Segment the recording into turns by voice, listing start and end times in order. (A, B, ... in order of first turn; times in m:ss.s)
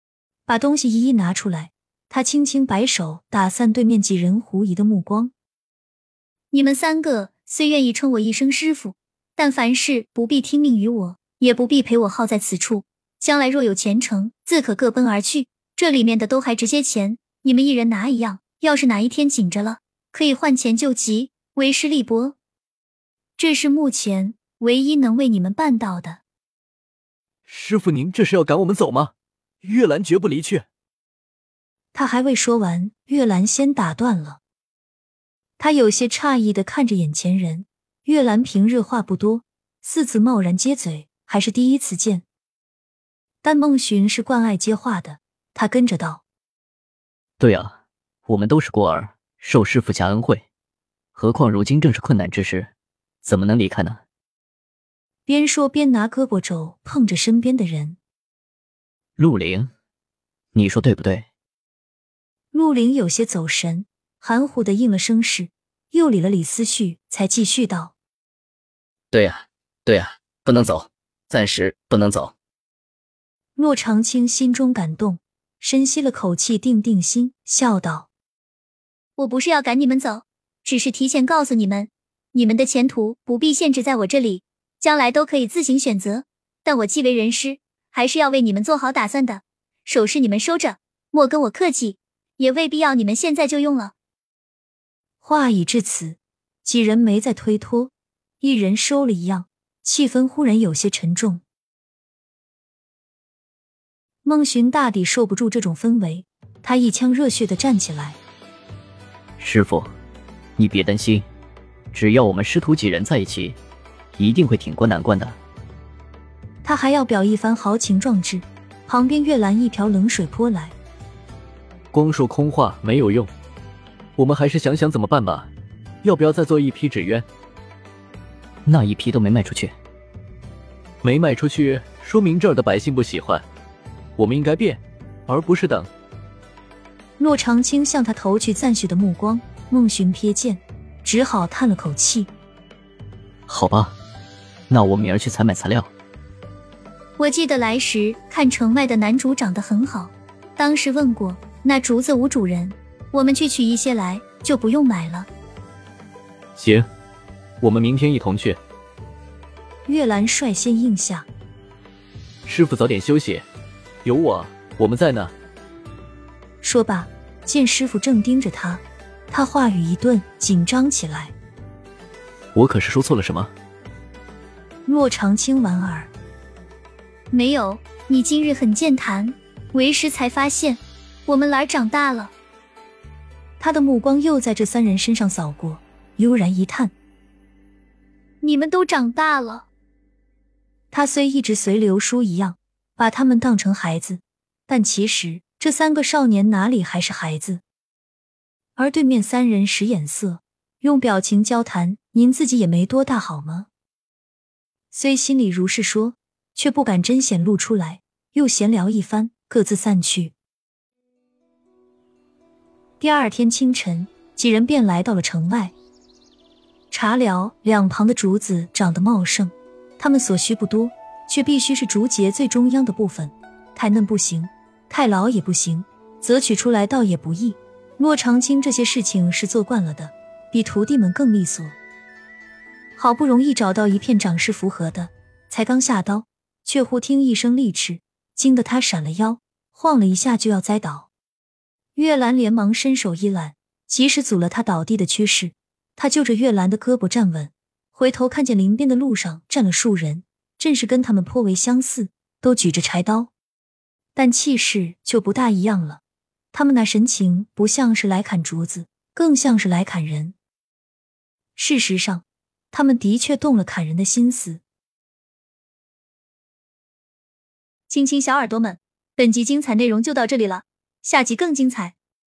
0:00.5-0:05.3 A
0:06.5-0:22.4 A
0:23.4-0:26.2 A
0:27.5-0:29.1 B
0:29.6-0:30.6 B
0:31.9-0:34.4 A
0:35.6-0:42.2 A
0:43.4-0:46.2 A
0:47.4-0:47.7 C
0:48.3-0:50.4 C
0:51.2-0:52.7 C
0:53.3-0:54.0 C
0:55.3-0:58.0 A
0:59.2-0:59.7 C
1:00.6-1:01.3 C
1:02.5-1:07.9 A
1:09.1-1:12.3 C
1:13.6-1:18.1 A
1:19.2-1:33.9 A
1:35.2-1:41.4 A
1:44.2-1:48.2 A
1:49.4-1:49.9 C
1:50.6-1:51.2 C
1:51.9-1:53.6 C
1:54.2-1:55.4 C
1:56.6-2:00.8 A
2:01.9-2:03.3 B
2:04.2-2:05.5 B
2:06.0-2:07.2 B
2:08.7-2:09.7 C
2:11.0-2:13.4 B
2:14.2-2:15.9 B
2:17.2-2:22.3 A
2:23.5-2:23.9 C
2:24.7-2:25.9 C
2:27.2-2:35.3 A
2:36.6-2:36.8 B
2:37.6-2:38.6 B
2:39.9-2:41.3 A
2:42.5-2:43.4 B
2:44.0-2:45.3 B
2:46.6-2:51.3 A
2:52.6-2:53.5 B
2:52.6-2:53.3 C
2:54.9-2:56.1 A
2:57.3-3:02.3 A
3:03.6-3:07.0 A
3:08.4-3:09.7 A
3:10.9-3:17.6 A
3:18.8-3:23.7 A
3:24.9-3:30.3 A
3:33.0-3:35.7 A
3:36.9-3:51.8 A
3:53.0-4:01.1 A
4:02.0-4:13.3 A
4:14.2-4:16.0 A
4:16.5-4:20.4 A
4:21.6-4:24.6 A
4:27.9-4:32.0 A